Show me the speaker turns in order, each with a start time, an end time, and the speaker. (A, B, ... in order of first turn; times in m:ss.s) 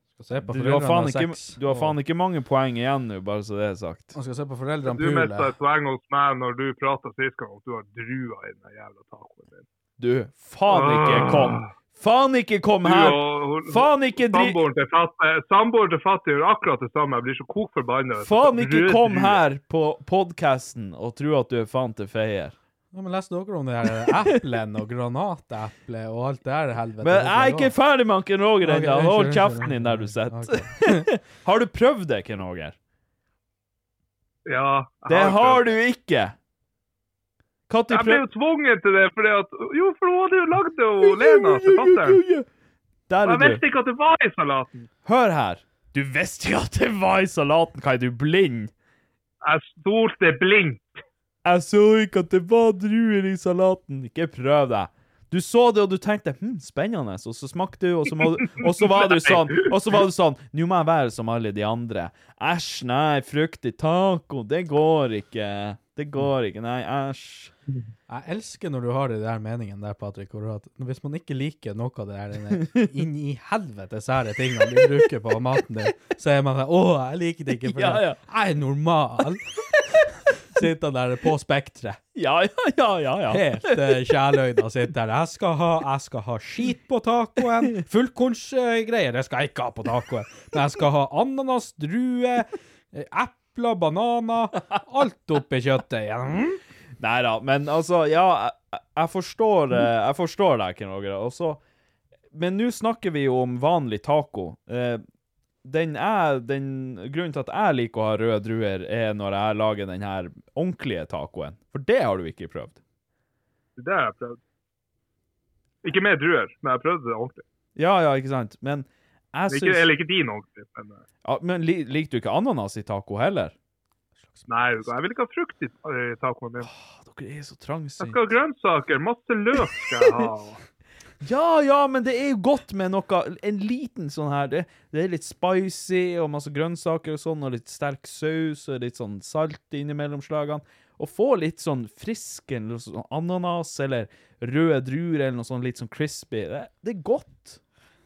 0:00.2-0:02.0 A
0:00.4-0:04.2 B
0:04.2-0:05.5 A
0:04.8-0:09.7 C
0:10.0-0:14.6 B
0:10.7-0:11.7 C
0:12.8-0:19.4 C
0:18.2-0:22.6 B
0:22.9-0:27.8 A
0:27.0-0:32.8 B
0:28.6-0:31.1 A
0:34.5-0:35.7 C
0:35.1-0:36.3 B
0:37.7-0:38.2 B
0:37.9-0:42.2 C
0:41.0-0:42.5 B
0:43.1-0:43.6 B
0:43.2-0:44.9 C
0:45.0-0:48.7 B
0:49.4-0:50.9 C
0:51.4-1:07.5 B
0:58.6-0:59.7 C
1:08.1-1:19.5 A
1:17.6-1:18.2 B
1:20.5-1:22.0 A
1:22.2-1:24.2 B
1:23.3-1:36.6 A
1:37.0-1:41.6 B
1:42.3-1:45.0 B
1:45.6-1:52.8 B
1:53.8-1:54.4 C
1:55.8-1:57.4 C
1:57.8-1:59.9 B
1:59.5-2:01.0 C
2:01.2-2:03.5 B
2:04.5-2:06.7 C
2:06.6-2:08.2 B
2:08.0-2:10.6 C
2:11.2-2:27.6 B